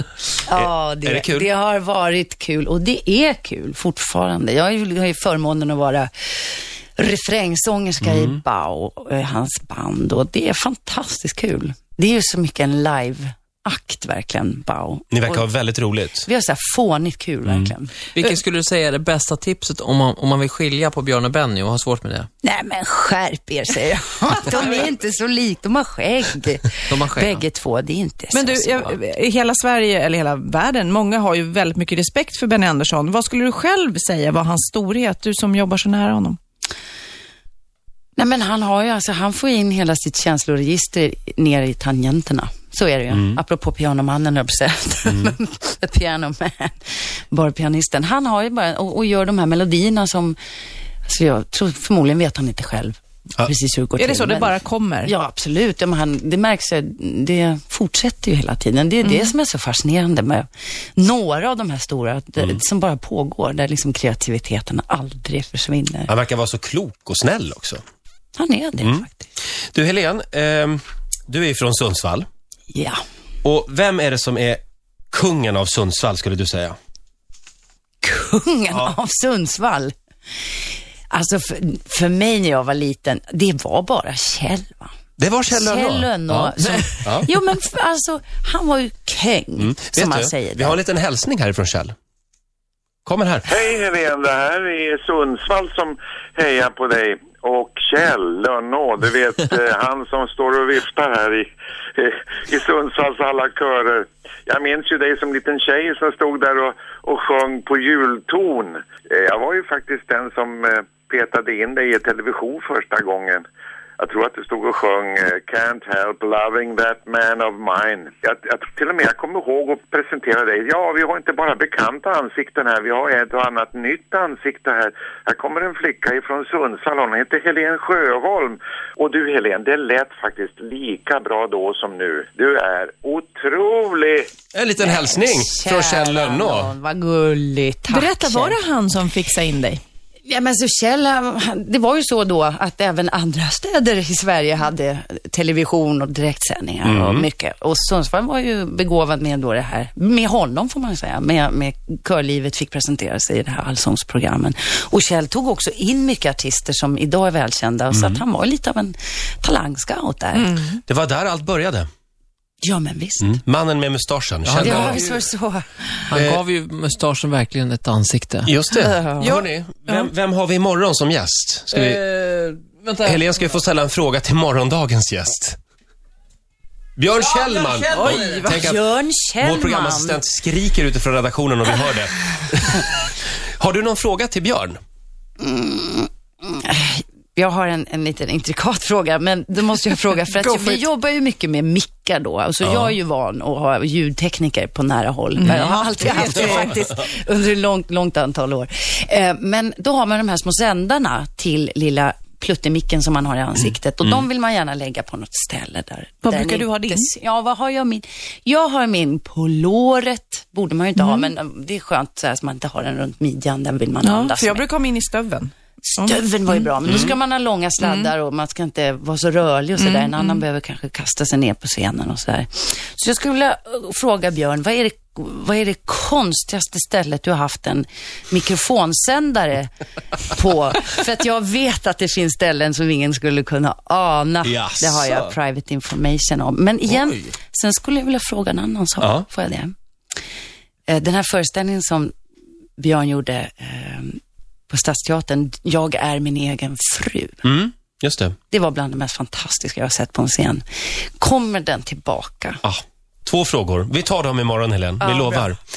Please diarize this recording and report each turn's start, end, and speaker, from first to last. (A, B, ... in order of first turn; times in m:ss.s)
0:00.5-0:06.1 A
0:00.6-0:01.5 B
0:07.0-0:15.5 A
0:08.0-0:08.4 B
0:15.1-0:16.3 B
0:16.2-0:17.9 A
0:17.4-0:17.7 B
0:18.1-0:22.3 C
0:22.4-0:29.0 A
0:26.9-0:27.4 C
0:28.3-0:36.4 D
0:38.2-0:46.8 A
0:43.1-0:43.4 B
0:47.3-0:50.4 A
0:51.0-1:06.1 A
0:54.0-0:55.1 D
0:59.0-0:59.3 D
1:06.1-1:07.8 B
1:08.4-1:09.3 A
1:09.7-1:12.3 B
1:12.7-1:13.0 A
1:13.4-1:14.6 B
1:15.1-1:16.8 B
1:18.0-1:19.9 A
1:21.1-1:24.9 A
1:25.2-1:27.3 B
1:25.5-1:30.8 A
1:29.6-1:32.0 B
1:33.0-1:33.4 B
1:33.5-1:53.4 E
1:54.0-2:14.2 E
2:14.5-2:16.7 B
2:14.8-2:18.6 A
2:17.9-2:19.8 D
2:20.3-2:40.7 A
2:26.8-2:27.3 B
2:37.9-2:38.2 B
2:40.4-2:40.8 D
2:40.9-2:41.9 B
2:42.6-2:43.4 A
2:43.2-2:45.0 B
2:44.4-2:45.2 C
2:44.6-2:46.1 A
2:46.1-2:48.5 C
2:46.1-2:46.4 B
2:48.4-2:52.0 B
2:48.8-2:49.2 A
2:49.2-2:50.1 D
2:51.7-2:53.5 C
2:53.0-2:55.6 B
2:57.0-2:58.8 B
2:57.4-2:58.5 C
2:57.9-2:58.4 D
2:58.4-3:00.2 A
2:59.4-3:03.0 B
3:03.6-3:04.8 B
3:05.4-3:34.6 A
3:10.3-3:10.9 D
3:12.6-3:13.0 B
3:15.4-3:16.8 D
3:26.2-3:27.1 D
3:31.0-3:31.3 D
3:34.0-3:36.9 D
3:35.8-3:49.7 A
3:36.9-3:37.1 B
3:37.8-3:38.1 D
3:39.8-3:40.4 D
3:50.2-3:59.7 A
3:54.4-3:55.3 B
3:59.0-3:59.3 B
4:00.9-4:02.1 A
4:02.8-4:07.4 A
4:07.4-4:08.4 B
4:08.5-4:12.6 A
4:12.6-4:15.6 B
4:15.0-4:15.5 A